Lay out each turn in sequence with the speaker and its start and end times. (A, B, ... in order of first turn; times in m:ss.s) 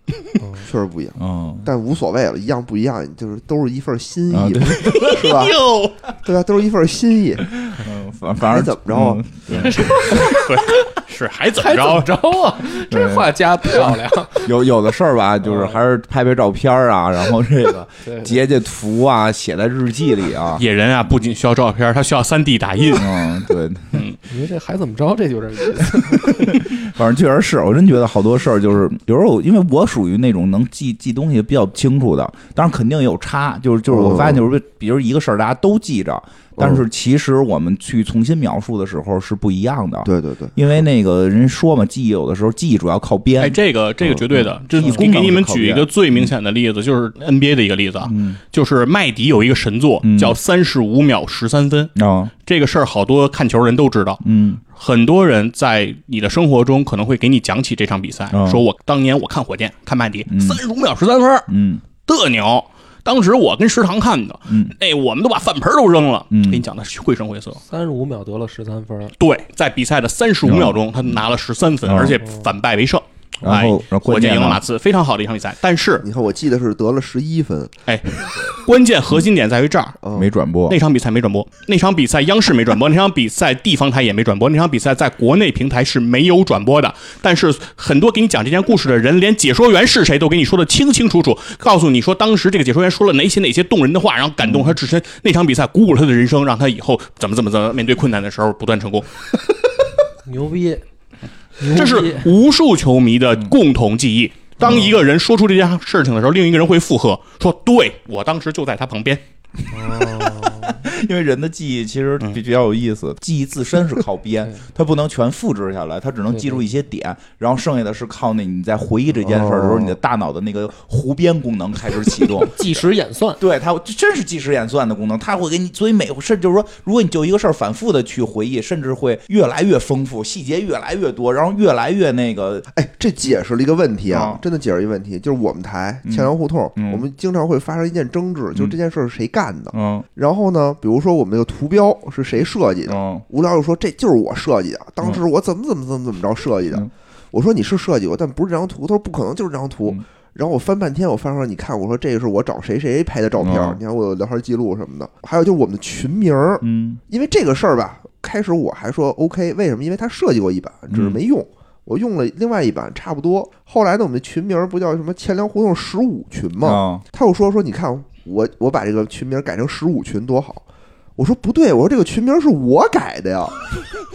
0:00.4-0:00.7 A
0:00.6-0:05.6 B
0:01.2-0:01.7 C
0:04.3-0:05.4 C
0:04.8-0:06.0 D
0:06.2-0:07.6 B
0:07.6-0:10.3 C
0:08.4-0:09.2 B
0:09.5-0:10.6 A
0:10.2-0:12.1 D
0:11.6-0:14.5 A
0:12.9-0:20.6 C
0:15.4-0:15.8 A
0:18.0-0:18.3 A
0:20.6-0:23.1 D
0:22.9-0:24.0 C
0:24.3-0:26.6 A
0:26.2-0:46.3 C
0:33.9-0:34.4 B
0:36.6-0:36.8 B
0:40.0-0:40.8 B
0:43.4-0:51.9 D
0:44.8-0:45.4 B
0:48.0-0:48.4 C
0:50.0-0:50.4 C
0:51.9-0:52.3 C
0:52.4-0:54.2 D
0:54.2-0:54.6 C
0:54.7-1:01.5 D
0:58.3-0:58.6 C
1:00.3-1:00.6 C
1:01.5-1:01.8 C
1:02.0-1:07.6 D
1:04.5-1:04.7 C
1:06.3-1:06.6 C
1:07.7-1:09.1 A
1:09.2-1:16.0 D
1:10.4-1:11.2 C
1:11.8-1:12.2 C
1:13.4-1:14.6 C
1:16.0-1:17.7 B
1:17.8-1:20.0 D
1:20.0-1:20.3 B
1:20.1-1:20.8 C
1:20.7-1:39.1 D
1:34.4-1:34.8 C
1:40.2-1:40.8 A
1:41.6-1:42.3 A
1:41.7-1:49.2 D
1:44.6-1:44.9 C
1:49.7-1:50.7 A
1:49.8-2:02.8 C
1:56.3-1:56.6 A
1:59.3-1:59.8 B
2:02.4-2:03.4 A
2:03.4-2:12.7 C
2:12.7-2:50.6 B
2:14.1-2:14.4 C
2:16.0-2:17.0 C
2:19.7-2:20.1 C
2:22.9-2:23.2 C
2:33.4-2:33.8 C
2:36.6-2:37.0 C
2:40.9-2:41.2 C
2:46.6-2:47.0 C
2:51.2-2:53.7 B